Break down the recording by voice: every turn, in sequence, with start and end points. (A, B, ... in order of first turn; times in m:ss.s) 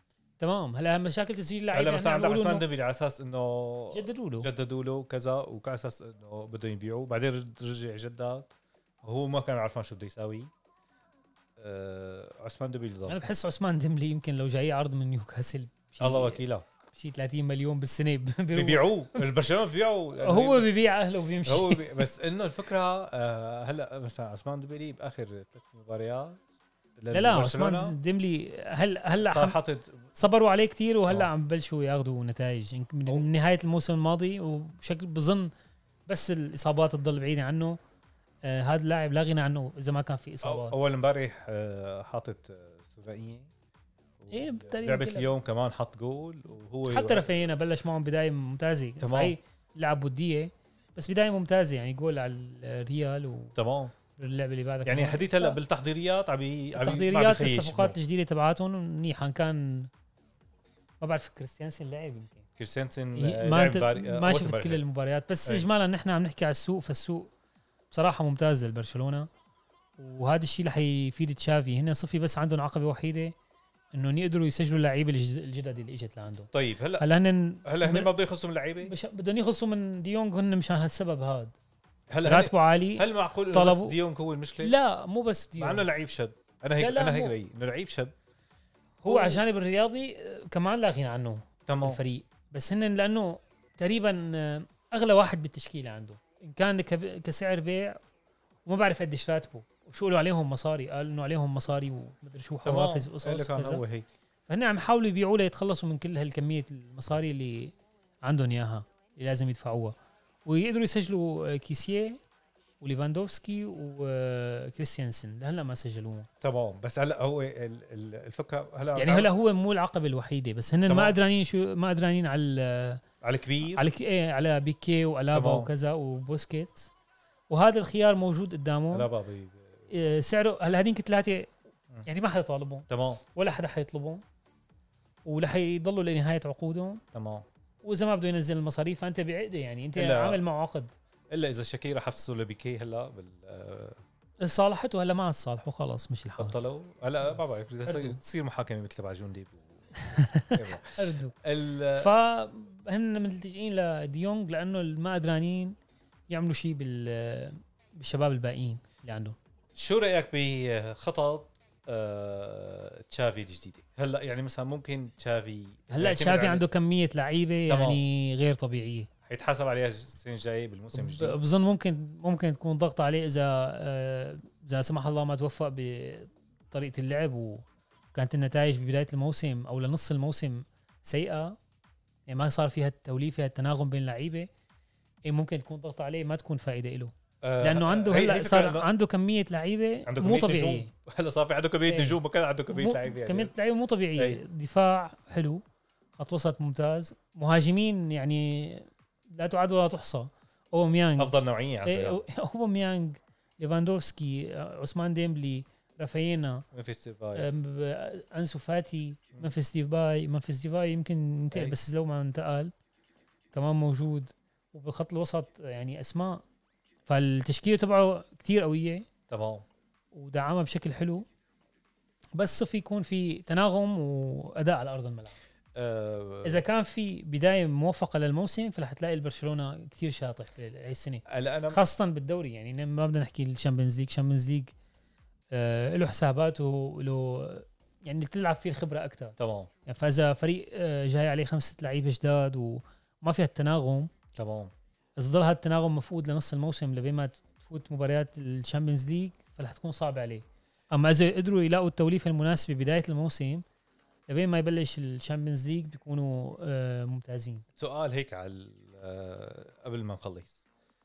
0:00.4-0:02.6 A
0:01.7-0:10.5 B
0:03.9-0:04.5 A
0:11.6-0:13.2 B
0:13.1-0:16.4 A
0:16.0-0:16.6 B
0:16.9-0:19.2 A
0:18.5-0:20.7 B
0:20.2-0:22.1 A
0:21.4-0:26.4 B
0:27.0-0:27.9 B
0:27.1-0:29.6 A
0:29.1-0:30.1 B
0:30.2-0:35.5 A
0:36.1-0:37.8 A
0:38.4-0:40.8 A
0:40.4-0:43.5 B
0:44.2-0:47.3 B
0:44.3-0:45.3 A
0:46.8-0:53.6 A
0:49.0-0:49.3 B
0:53.6-0:53.9 B
0:54.2-0:55.6 A
0:54.8-0:58.0 B
0:56.7-0:59.9 A
1:01.0-1:02.4 A
1:02.6-1:04.8 B
1:03.2-1:07.3 A
1:07.9-1:09.3 A
1:10.0-1:13.3 A
1:13.9-1:18.1 A
1:16.5-1:17.0 B
1:17.6-1:18.9 B
1:18.8-1:21.5 A
1:22.1-1:24.8 B
1:22.2-1:24.0 A
1:24.6-1:25.8 A
1:25.6-1:28.1 B
1:26.8-1:27.3 A
1:29.0-1:38.0 A
1:29.0-1:29.4 B
1:31.7-1:32.0 B
1:38.6-1:43.8 A
1:42.6-1:44.1 B
1:44.5-1:52.2 A
1:52.8-1:56.3 A
1:56.4-1:59.3 B
1:58.9-2:03.0 A
2:00.9-2:01.2 B
2:03.2-2:03.9 B
2:03.6-2:06.9 A
2:05.3-2:05.7 B
2:07.5-2:09.1 A
2:08.9-2:10.1 B
2:09.9-2:11.5 A
2:12.0-2:14.2 A
2:12.9-2:13.2 B
2:15.2-2:17.0 A
2:17.1-2:17.4 B
2:17.8-2:20.9 A
2:20.0-2:20.4 B
2:21.3-2:24.0 B
2:24.4-2:26.5 A
2:26.4-2:29.9 B
2:27.2-2:28.2 A
2:30.0-2:31.3 A
2:30.5-2:32.1 B
2:31.9-2:35.7 A
2:36.3-2:39.4 A
2:39.7-2:46.6 B
2:45.9-2:49.1 A
2:47.7-2:48.0 B
2:49.3-2:51.4 B
2:50.9-3:01.5 A
3:02.3-3:04.5 A
3:05.2-3:10.9 A
3:07.4-3:08.9 B
3:10.0-3:13.5 B
3:11.9-3:12.2 A
3:12.7-3:15.6 A
3:16.2-3:21.3 A
3:21.2-3:22.2 B
3:21.8-3:26.6 A
3:26.7-3:27.5 B
3:27.4-3:32.7 A
3:33.5-3:36.4 A
3:37.1-3:39.1 A
3:39.3-3:39.6 B
3:40.1-3:41.2 A
3:42.4-3:45.4 A
3:45.7-3:46.6 B
3:46.4-3:54.7 A
3:51.3-3:51.8 B
3:55.5-3:59.4 A
3:59.4-3:59.7 B
3:59.9-4:04.1 A
4:04.4-4:04.7 B
4:05.2-4:13.6 A
4:14.3-4:17.6 A
4:17.8-4:20.6 B